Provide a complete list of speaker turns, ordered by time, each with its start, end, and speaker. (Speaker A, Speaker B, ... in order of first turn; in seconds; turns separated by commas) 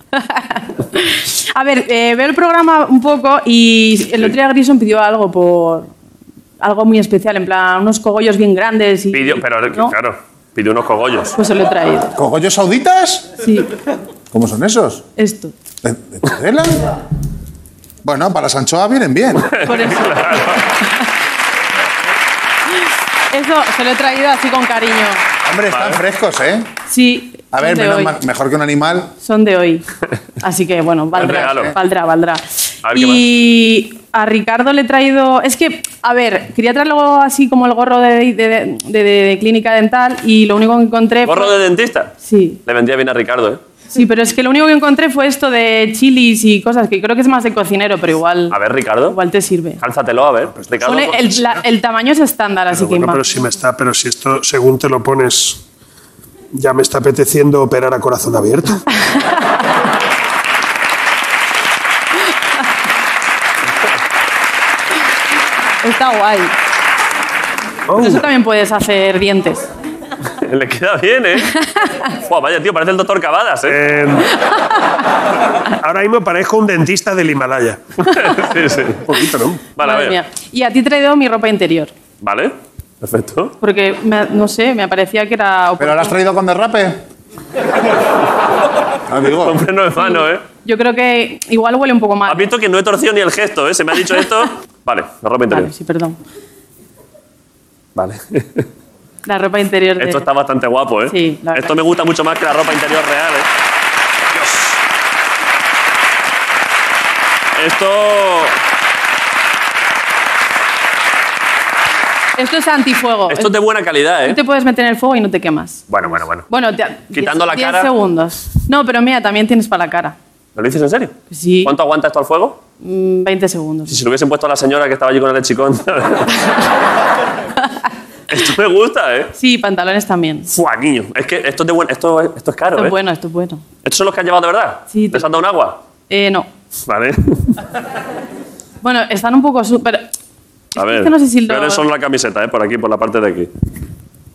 Speaker A: 0.1-5.9, Speaker A: 6.6-9.9, Speaker B: 9.1-11.3, Speaker A: 11.3-12.1, Speaker C: 12.2-13.3, Speaker A: 13.4-13.7, Speaker C: 14.3-15.0, Speaker A: 15.2-15.5, Speaker C: 15.8-16.9, Speaker C: 18.0-19.6, Speaker B: 19.4-20.7, Speaker A: 19.6-21.0, Speaker A: 23.3-25.2, Speaker C: 25.4-26.7, Speaker B: 25.7-26.0, Speaker A: 26.9-28.2, Speaker C: 27.5-29.1, Speaker A: 29.2-29.9, Speaker A: 30.4-41.6, Speaker B: 31.1-31.8, Speaker B: 32.8-33.2, Speaker B: 41.2-42.1, Speaker A: 42.2-42.6, Speaker B: 42.6-43.6, Speaker A: 43.9-49.8, Speaker B: 48.5-49.2, Speaker B: 49.8-51.3, Speaker A: 50.8-53.3, Speaker D: 52.7-55.6, Speaker D: 56.5-58.8, Speaker A: 65.8-66.5, Speaker D: 67.9-68.2, Speaker A: 68.0-69.6, Speaker B: 70.4-71.5, Speaker A: 71.5-71.9, Speaker B: 72.3-73.8, Speaker D: 73.7-74.3, Speaker D: 75.8-77.8, Speaker B: 78.0-79.1, Speaker D: 79.1-79.7, Speaker B: 79.8-80.2, Speaker A: 79.8-81.9, Speaker B: 82.2-83.5, Speaker A: 83.6-86.2, Speaker C: 85.8-87.0, Speaker C: 89.1-89.6, Speaker B: 89.4-90.5, Speaker A: 90.0-92.5, Speaker B: 92.3-95.7, Speaker A: 95.5-96.2, Speaker B: 98.0-98.7, Speaker A: 99.3-100.3, Speaker B: 100.0-103.5, Speaker A: 101.1-101.8, Speaker B: 104.4-104.7, Speaker B: 107.6-108.6, Speaker A: 112.4-113.6, Speaker B: 113.3-114.4, Speaker A: 114.2-120.2, Speaker B: 115.9-116.5, Speaker B: 117.1-117.9, Speaker B: 120.6-122.6, Speaker A: 121.3-121.8, Speaker A: 122.8-124.0, Speaker B: 123.9-126.4, Speaker B: 128.3-129.3, Speaker A: 129.3-130.5, Speaker B: 130.5-133.0, Speaker A: 132.7-133.6, Speaker B: 133.8-135.8, Speaker A: 134.9-135.3, Speaker A: 136.1-136.5, Speaker B: 136.9-137.5, Speaker A: 138.8-140.1, Speaker A: 140.8-141.9, Speaker B: 140.8-143.5